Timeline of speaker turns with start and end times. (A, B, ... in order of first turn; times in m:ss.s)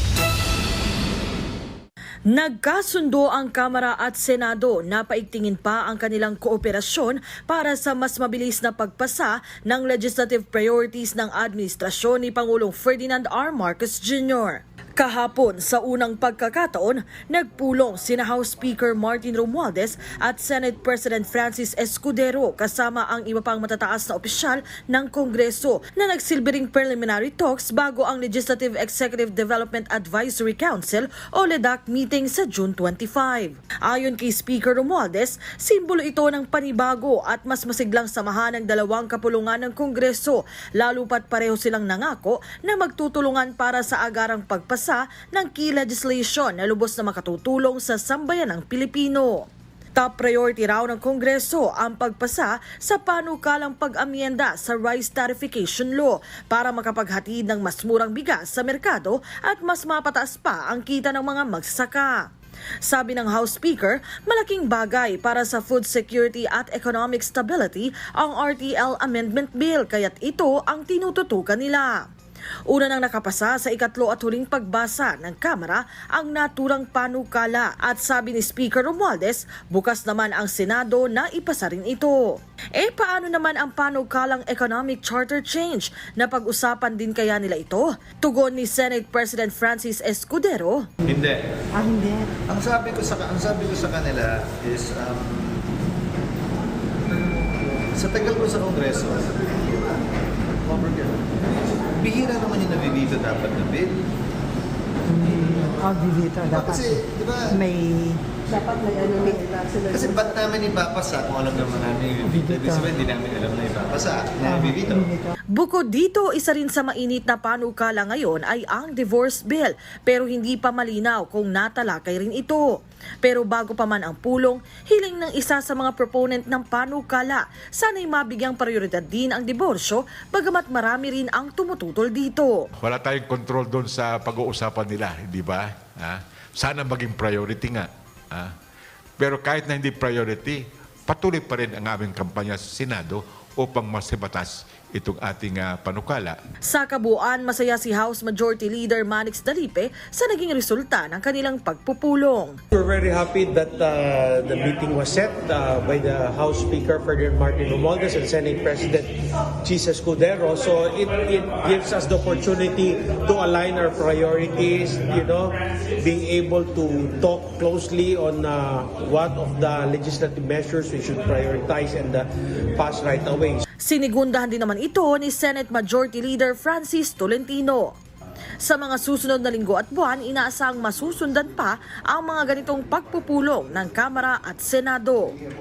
0:02.3-1:02.2 A
1:02.9-1:12.0 A
1:12.7-1:30.9 A
1:31.1-1:31.4 B
1:31.8-1:32.3 C
1:32.5-1:35.6 B
1:38.0-1:39.6 B
1:40.7-1:41.1 B
1:42.0-1:43.9 B
1:45.1-1:47.0 C
1:46.7-1:47.6 B
1:47.5-1:48.2 C
1:49.9-1:55.0 B
1:52.2-1:53.0 C
1:54.4-1:55.3 C
1:55.6-2:02.6 A
2:03.2-2:12.7 A
2:12.8-2:18.5 D
2:19.2-2:26.4 D
2:26.7-2:32.6 A
2:32.7-2:53.6 E
2:53.8-2:58.0 A
2:58.6-3:05.4 A